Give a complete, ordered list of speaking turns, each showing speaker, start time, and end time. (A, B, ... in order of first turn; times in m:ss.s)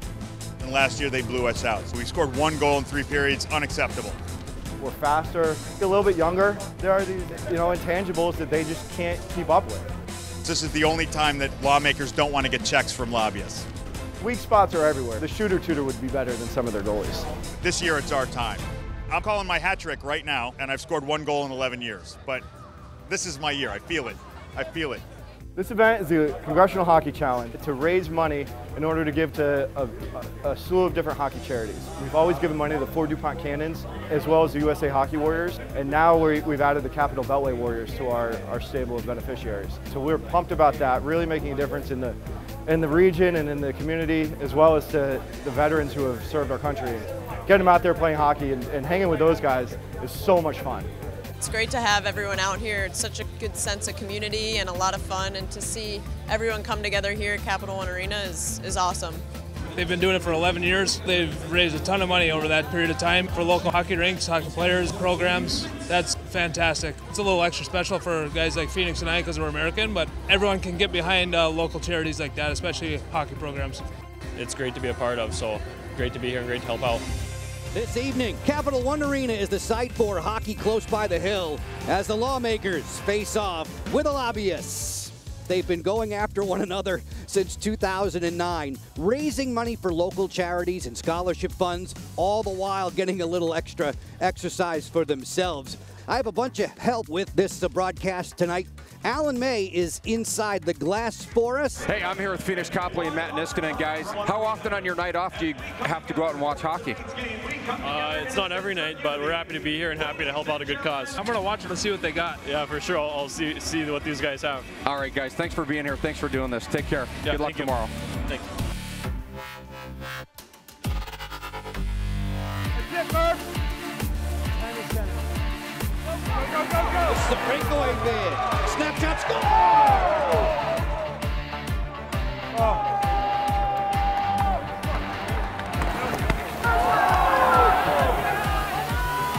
0:00.6-0:04.2 A
0:04.8-0:09.9 B
0:10.4-0:13.7 A
0:14.2-0:17.3 B
0:17.6-0:22.4 A
0:23.1-0:25.0 A
0:25.6-0:50.9 B
0:51.4-0:59.2 C
0:59.8-1:13.8 D
1:14.4-1:17.0 E
1:17.7-1:41.9 F
1:41.9-1:47.0 G
1:47.8-1:51.2 E
1:51.2-1:52.4 D
1:52.4-1:54.7 E
1:54.8-1:57.9 G
1:57.2-1:58.5 E
2:07.0-2:10.4 F